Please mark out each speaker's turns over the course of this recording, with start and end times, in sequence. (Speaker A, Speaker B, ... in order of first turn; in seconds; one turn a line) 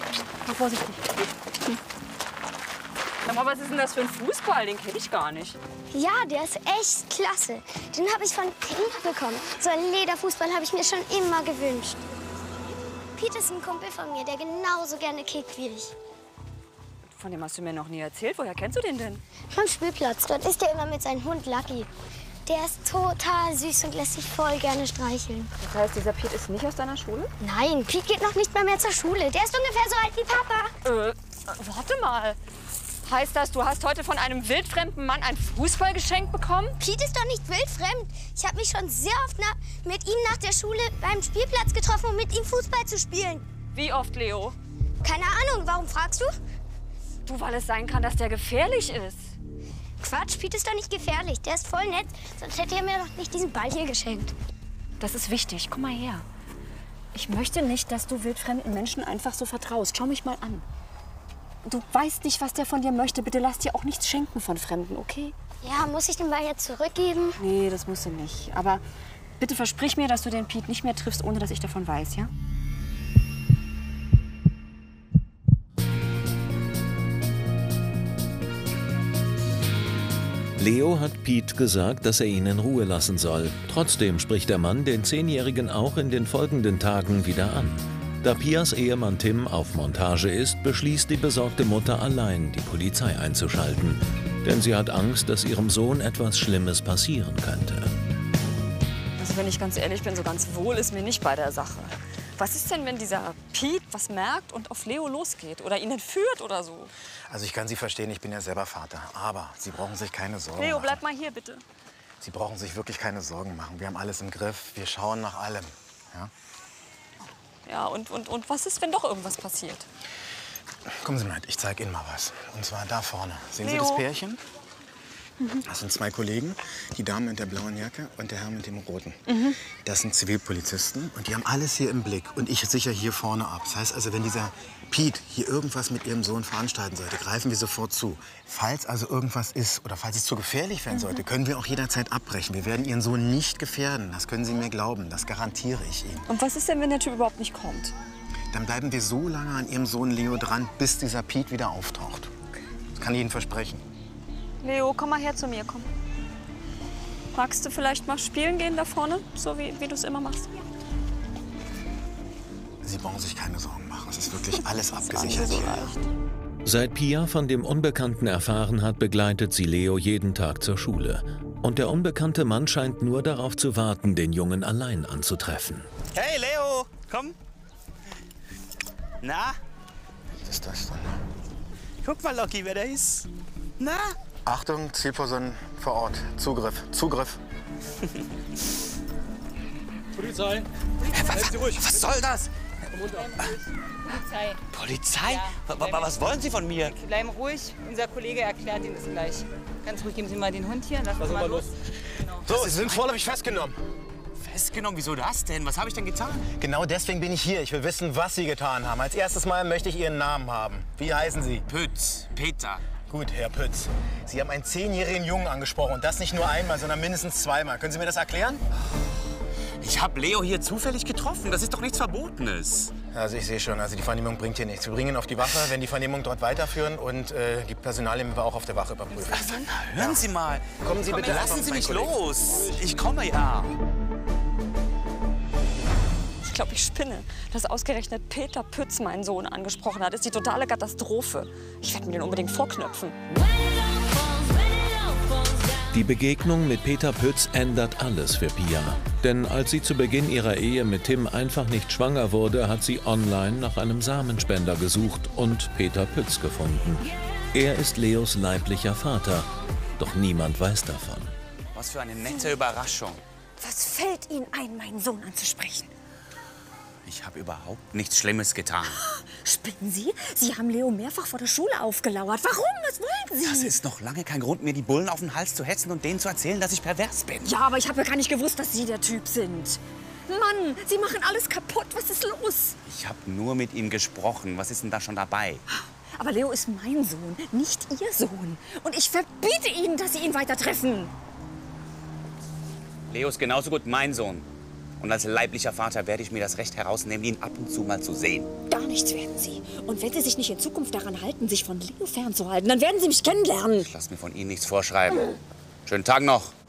Speaker A: 0.5-1.3
Speaker A: 3.2-5.6
Speaker B: 5.9-12.0
Speaker B: 13.2-15.9
Speaker A: 17.1-19.2
Speaker B: 19.5-21.9
Speaker B: 22.5-25.5
Speaker A: 25.6-27.3
Speaker B: 27.4-30.7
Speaker A: 30.8-32.4
Speaker A: 33.0-36.8
Speaker B: 36.8-43.5
Speaker A: 43.7-44.6
Speaker B: 45.0-46.4
Speaker A: 47.2-49.3
Speaker B: 50.0-54.4
Speaker A: 55.0-56.2
Speaker A: 57.1-60.6
Speaker A: 61.6-65.3
Speaker B: 65.6-67.4
Speaker A: 67.4-68.8
Speaker A: 69.4-72.3
Speaker C: 80.6-97.9
Speaker A: 99.2-106.9
Speaker D: 107.3-111.0
Speaker A: 110.6-111.6
Speaker D: 112.2-116.3
Speaker A: 117.7-119.9
Speaker D: 121.0-124.4
Speaker A: 123.6-124.0
Speaker D: 125.6-146.3
Speaker A: 129.3-129.6
Speaker A: 146.3-147.9
Speaker D: 148.5-152.3
Speaker D: 153.0-153.8
Speaker A: 154.6-155.9
Speaker A: 157.3-160.7
Speaker D: 162.8-165.9
Speaker A: 164.4-166.0
Speaker C: 166.7-175.9
Speaker E: 176.1-177.3
Speaker E: 179.2-179.6
Speaker D: 180.4-181.2
Speaker E: 182.0-183.3
Speaker E: 183.8-184.2
Speaker D: 184.5-187.4
Speaker E: 191.1-192.5
Speaker F: 193.1-193.6
Speaker F: 194.2-194.6
Speaker E: 194.7-197.0
Speaker F: 195.2-196.1
Speaker F: 196.8-201.7
Speaker E: 202.5-203.1
Speaker D: 202.5-203.8
Speaker E: 204.4-206.5
Speaker D: 206.6-211.7
Speaker E: 211.7-212.8
Speaker D: 213.1-218.6
Speaker E: 219.8-222.9
Speaker D: 223.1-232.4
Speaker E: 229.1-233.8
Speaker A: 236.4-243.2
Speaker C: 245.9-261.3
Speaker E: 261.7-263.2
Speaker A: 263.6-265.9
Speaker E: 267.1-269.0
Speaker A: 268.9-273.8
Speaker E: 273.4-277.5
Speaker A: 277.4-282.8
Speaker E: 282.9-285.6
Speaker A: 286.2-291.1
Speaker E: 293.1-294.5
Speaker E: 295.0-298.5
Speaker A: 298.7-303.9
Speaker E: 303.8-306.5